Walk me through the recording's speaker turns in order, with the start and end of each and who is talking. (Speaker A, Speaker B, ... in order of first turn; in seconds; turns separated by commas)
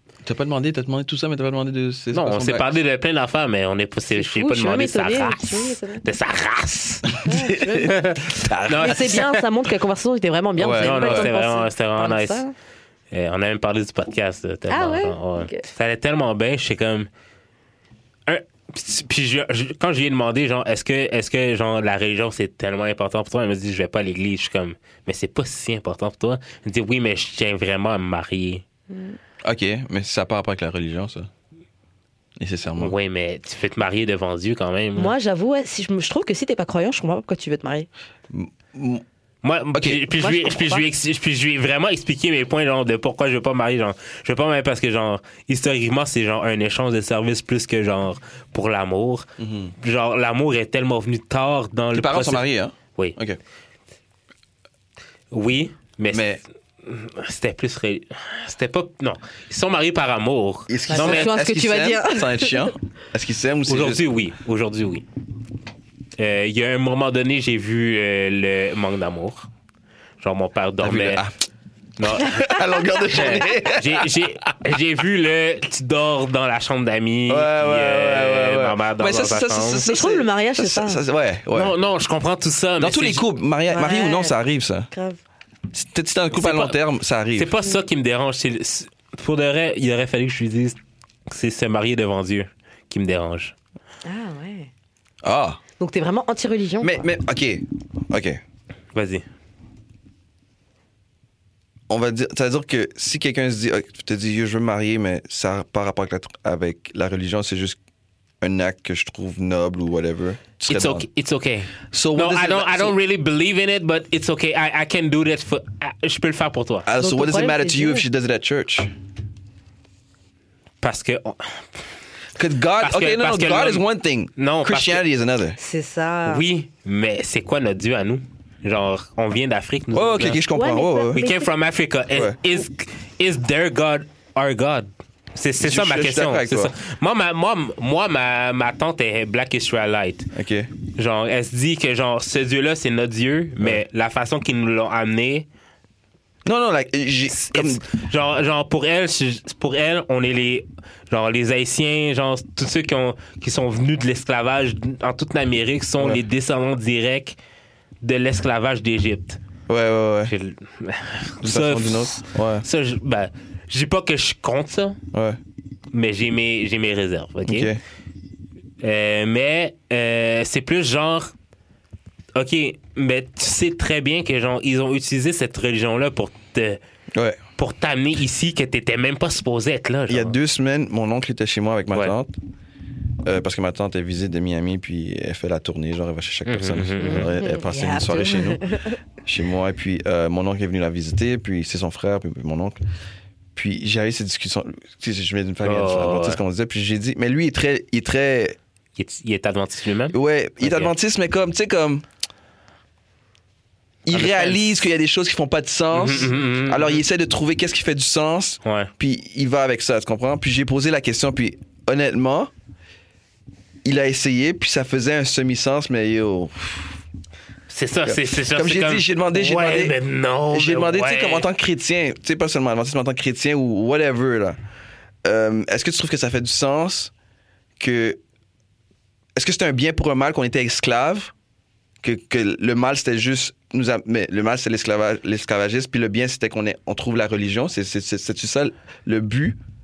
Speaker A: 0.2-2.7, Speaker B: 2.1-7.2, Speaker C: 4.2-6.0, Speaker C: 7.2-7.9, Speaker A: 7.2-9.0, Speaker B: 7.8-9.4, Speaker C: 8.7-12.5, Speaker A: 10.6-11.3, Speaker B: 10.7-12.4, Speaker B: 13.1-17.1, Speaker C: 14.7-15.7, Speaker B: 18.3-28.6, Speaker C: 28.9-29.2, Speaker A: 29.4-31.3, Speaker A: 32.4-32.9, Speaker B: 32.8-35.1, Speaker C: 35.0-37.9, Speaker A: 38.3-39.0, Speaker B: 39.4-49.3, Speaker A: 39.7-40.0, Speaker C: 40.2-40.9, Speaker A: 49.4-49.7, Speaker B: 49.8-52.4, Speaker A: 51.9-53.4, Speaker B: 55.3-61.3, Speaker A: 56.1-56.4, Speaker A: 60.7-64.0, Speaker C: 60.9-62.7, Speaker B: 63.7-65.0, Speaker B: 66.2-69.5, Speaker B: 70.2-71.2, Speaker A: 70.8-71.3, Speaker B: 72.0-79.8, Speaker A: 72.0-74.2, Speaker A: 77.3-81.7, Speaker C: 79.8-81.0, Speaker B: 81.5-83.2, Speaker A: 82.8-84.9, Speaker C: 83.7-84.3, Speaker C: 84.9-85.2, Speaker A: 85.7-87.5, Speaker B: 86.3-86.8, Speaker B: 87.4-93.5, Speaker C: 94.0-94.7, Speaker A: 95.2-95.6, Speaker C: 95.8-97.0, Speaker A: 96.8-98.4, Speaker B: 98.9-99.2, Speaker A: 101.9-107.8, Speaker A: 108.4-111.1, Speaker B: 110.7-116.9, Speaker A: 111.9-113.0, Speaker A: 116.8-118.9, Speaker C: 117.0-118.0, Speaker B: 120.8-121.8, Speaker A: 122.3-125.6, Speaker B: 122.8-123.8, Speaker B: 124.4-125.0, Speaker C: 125.6-126.4, Speaker B: 126.3-130.4, Speaker A: 129.9-131.2, Speaker C: 130.5-131.4, Speaker B: 131.1-140.3, Speaker A: 132.1-132.4, Speaker A: 135.6-136.7, Speaker A: 140.3-140.7, Speaker B: 140.9-145.4, Speaker A: 146.4-147.8, Speaker B: 147.3-157.3, Speaker B: 158.0-159.4, Speaker A: 159.7-160.3, Speaker B: 160.3-165.0, Speaker A: 161.4-162.7, Speaker A: 165.1-165.4, Speaker B: 165.9-167.7, Speaker A: 167.4-167.8, Speaker B: 168.8-171.3, Speaker B: 172.3-176.8, Speaker A: 177.1-177.4, Speaker B: 177.6-180.3, Speaker A: 180.1-182.3, Speaker A: 183.2-188.7, Speaker B: 186.4-187.4, Speaker C: 187.0-189.0, Speaker A: 189.2-192.8, Speaker A: 193.5-198.6, Speaker B: 195.6-196.4, Speaker B: 199.0-200.9, Speaker A: 200.1-202.0, Speaker A: 204.1-212.5, Speaker B: 204.1-204.6, Speaker B: 205.9-207.0, Speaker B: 208.6-208.9, Speaker A: 213.8-217.0, Speaker B: 217.7-221.5, Speaker A: 218.1-219.9, Speaker A: 220.5-224.6, Speaker A: 225.2-227.1, Speaker A: 227.8-228.2, Speaker A: 229.3-231.3, Speaker A: 232.0-239.6